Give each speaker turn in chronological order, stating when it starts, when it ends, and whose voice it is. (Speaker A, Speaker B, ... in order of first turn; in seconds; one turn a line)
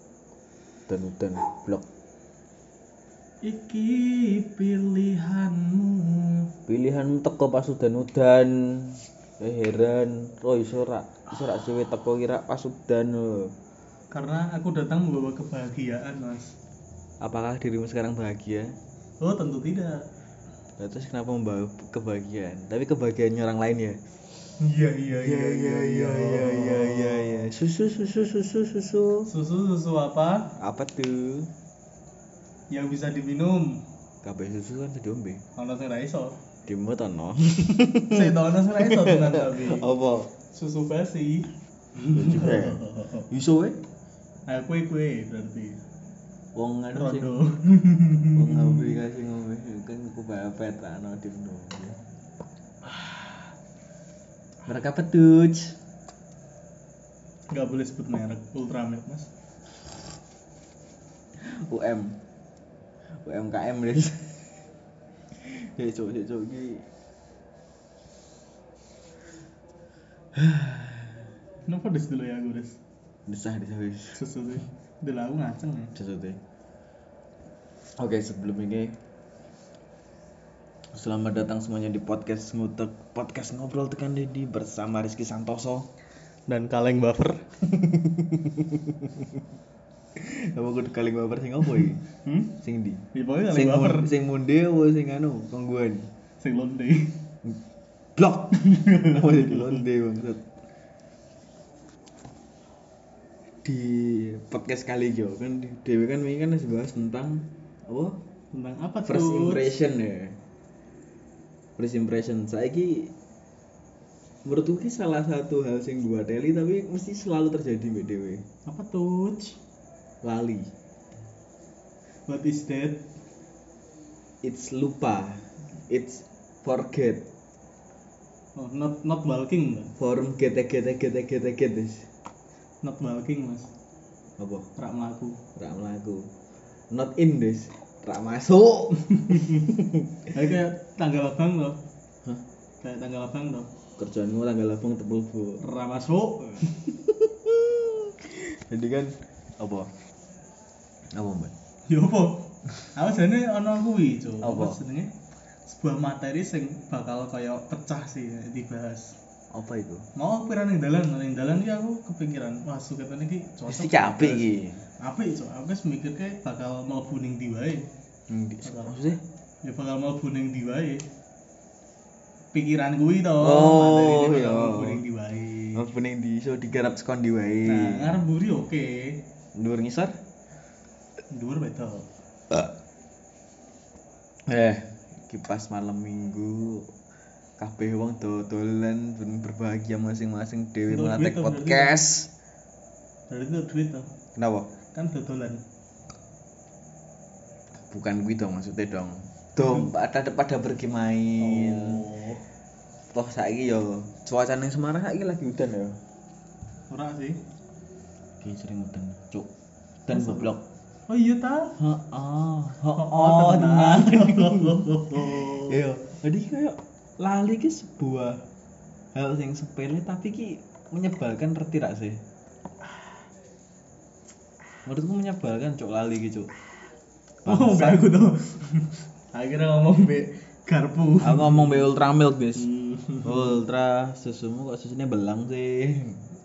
Speaker A: 0.9-1.9
Speaker B: 3.4-6.5
Speaker A: 6.7-13.5
Speaker B: 14.1-16.5
Speaker A: 17.2-18.8
Speaker B: 19.2-20.0
Speaker A: 20.8-24.0
Speaker B: 24.6-27.5
Speaker A: 25.1-29.3
Speaker B: 29.3-30.5
Speaker A: 30.6-31.5
Speaker B: 32.7-33.8
Speaker A: 34.2-35.4
Speaker B: 35.6-36.4
Speaker A: 36.7-40.3
Speaker B: 38.1-39.9
Speaker B: 40.5-43.3
Speaker A: 42.1-43.8
Speaker B: 44.5-45.8
Speaker A: 46.5-47.4
Speaker B: 47.0-49.0
Speaker A: 48.4-52.0
Speaker A: 54.7-55.8
Speaker B: 57.5-59.3
Speaker A: 61.4-62.2
Speaker A: 63.2-64.4
Speaker A: 65.4-66.9
Speaker A: 70.3-71.3
Speaker B: 71.7-72.8
Speaker A: 73.3-74.2
Speaker B: 74.1-75.9
Speaker A: 76.0-76.4
Speaker A: 78.0-79.0
Speaker A: 80.9-85.9
Speaker B: 86.5-87.5
Speaker A: 87.7-89.4
Speaker A: 90.2-92.0
Speaker B: 92.2-92.5
Speaker A: 92.6-96.1
Speaker B: 93.1-94.1
Speaker B: 96.4-97.2
Speaker A: 98.2-100.4
Speaker B: 98.5-99.8
Speaker A: 103.6-108.2
Speaker B: 108.5-109.8
Speaker A: 109.0-110.4
Speaker A: 111.8-113.1
Speaker A: 114.5-118.4
Speaker B: 118.7-119.6
Speaker A: 120.2-120.7
Speaker B: 122.3-123.0
Speaker A: 124.4-127.3
Speaker B: 128.6-129.9
Speaker A: 130.0-132.1
Speaker B: 132.8-133.7
Speaker A: 134.4-134.7
Speaker B: 134.8-135.4
Speaker A: 135.6-136.3
Speaker A: 136.9-140.3
Speaker B: 138.9-139.7
Speaker B: 140.3-141.8
Speaker B: 142.8-143.7
Speaker A: 144.0-145.6
Speaker B: 145.6-146.8
Speaker A: 146.9-149.9
Speaker A: 151.1-151.5
Speaker B: 151.9-155.1
Speaker A: 154.4-154.8
Speaker B: 155.7-159.2
Speaker A: 159.5-160.1
Speaker B: 160.2-164.5
Speaker A: 163.7-164.8
Speaker B: 165.0-167.9
Speaker A: 168.3-169.2
Speaker B: 168.6-169.0
Speaker B: 169.6-171.1
Speaker B: 172.5-175.8
Speaker A: 173.4-175.0
Speaker A: 175.8-178.2
Speaker B: 177.7-179.2
Speaker A: 179.6-180.2
Speaker B: 181.3-182.1
Speaker A: 184.5-186.9
Speaker A: 187.6-192.3
Speaker B: 190.9-191.9
Speaker B: 193.3-194.1
Speaker A: 194.4-194.7
Speaker B: 194.9-195.6
Speaker A: 197.9-202.0
Speaker B: 199.6-199.9
Speaker B: 201.4-202.4
Speaker A: 203.1-206.0
Speaker B: 206.9-207.4
Speaker A: 208.4-209.5
Speaker A: 210.1-210.6
Speaker B: 210.1-210.5
Speaker B: 211.1-211.8
Speaker A: 211.8-218.4
Speaker B: 212.9-215.8
Speaker A: 219.2-222.2
Speaker A: 224.8-226.5
Speaker A: 227.4-228.1
Speaker B: 227.5-231.9
Speaker A: 231.2-232.7
Speaker B: 232.6-233.6
Speaker A: 233.2-236.2